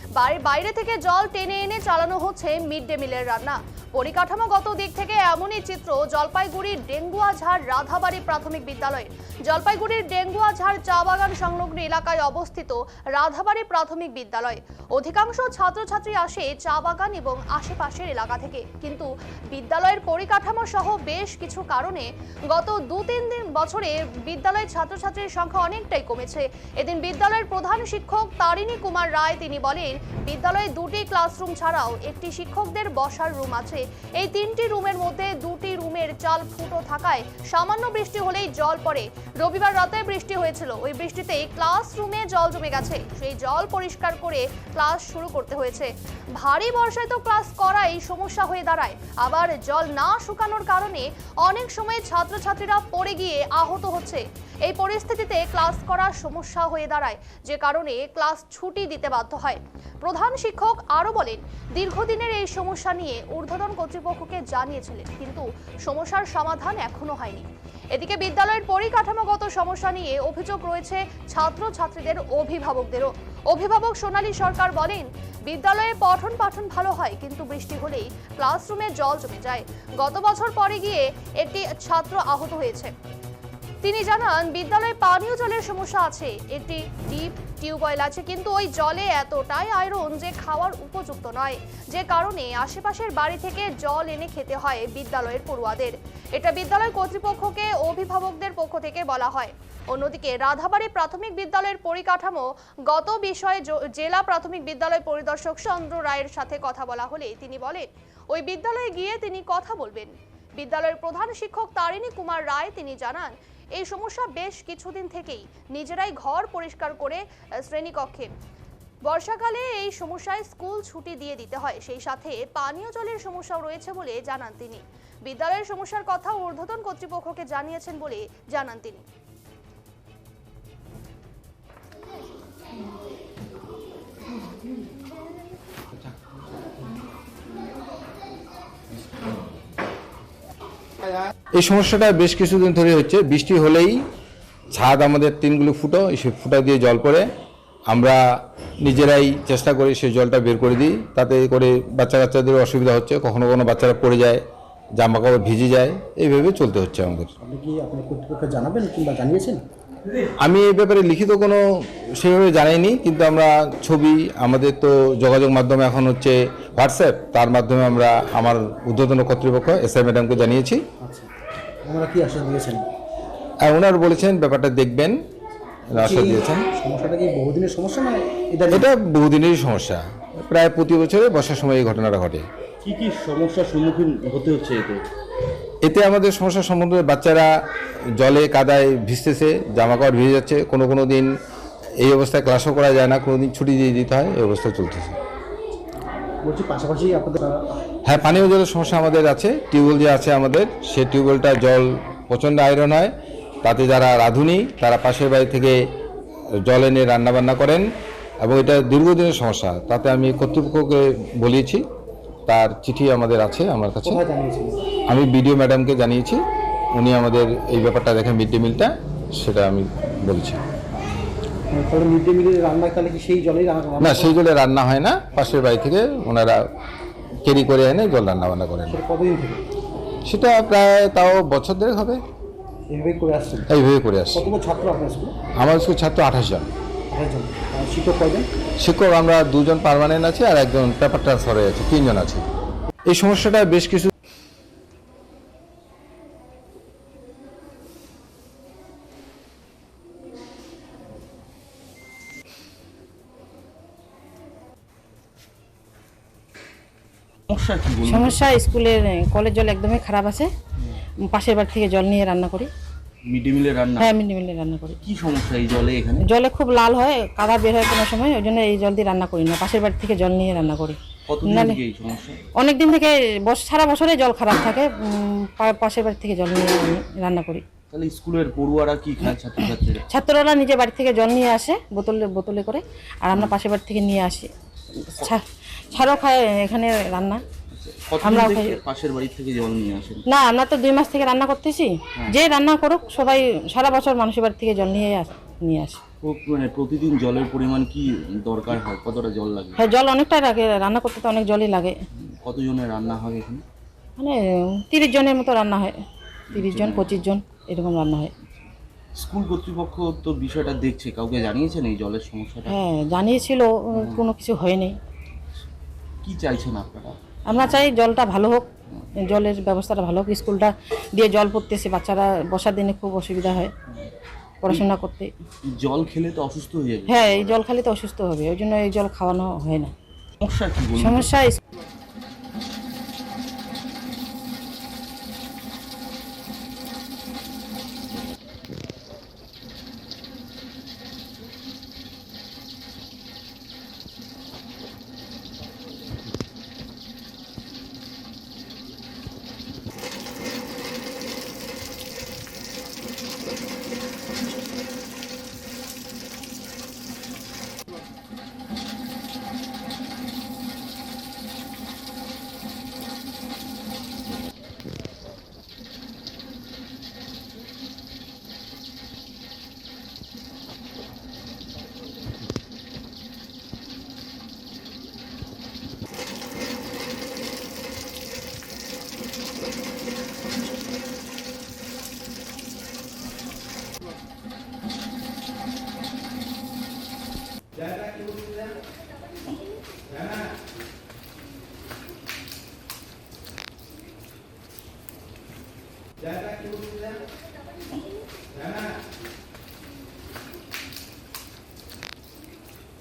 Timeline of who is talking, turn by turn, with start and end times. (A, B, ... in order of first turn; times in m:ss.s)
0:00.2-1:22.9 A
1:23.8-1:58.3 A
1:59.1-2:09.0 A
2:21.6-2:24.0 B
2:24.7-2:27.2 B
2:27.9-2:28.2 B
2:28.8-2:34.4 B
2:35.0-2:37.3 B
2:37.4-2:39.6 C
2:40.4-2:50.8 B
2:51.0-2:51.3 C
2:51.8-2:52.9 C
2:53.6-2:55.2 B
2:55.9-2:56.6 B
2:55.9-2:58.8 C
2:58.7-3:02.5 B
3:02.8-3:05.0 D
3:05.8-3:07.5 B
3:08.2-3:11.3 B
3:12.0-3:15.2 B
3:16.4-3:17.6 C
3:18.1-3:25.8 B
3:26.6-3:27.8 B
3:28.4-3:31.8 B
3:32.5-3:34.2 B
3:34.0-3:34.8 C
3:35.1-3:36.4 B
3:36.9-3:40.6 B
3:41.7-3:44.4 C
3:44.0-3:46.6 B
3:47.4-3:49.0 B
3:48.9-3:49.6 C
3:50.3-3:52.2 B
3:52.9-3:53.7 C
3:53.7-3:54.5 B
3:54.4-3:55.3 C
3:55.6-3:56.7 B
3:57.1-3:58.5 C
3:58.8-4:02.4 B
4:03.1-4:04.1 B
4:17.5-4:18.4 D
4:18.1-4:20.5 E
4:21.3-4:22.7 E
4:23.2-4:24.1 D
4:24.0-4:25.0 E
4:25.0-4:26.2 D
4:26.3-4:31.8 E
4:31.3-4:32.4 D
4:32.6-4:37.6 E
4:37.9-4:40.0 D
4:40.1-4:44.5 E
4:45.1-4:47.4 E
4:47.7-4:50.2 D
4:48.2-4:48.8 E
4:50.3-4:56.0 E
4:56.2-4:59.8 D
4:59.8-5:02.0 E
5:02.2-5:03.6 D
5:04.2-5:06.0 E
5:06.5-5:07.2 D
5:06.5-5:08.3 E
5:08.4-5:12.8 D
5:12.7-5:15.0 E
5:14.0-5:14.3 D
5:16.2-5:17.9 D
5:17.5-5:23.7 E
5:24.6-5:25.3 E
5:25.6-5:27.6 D
5:27.1-5:29.9 E
5:30.4-5:31.3 D
5:31.0-5:31.6 E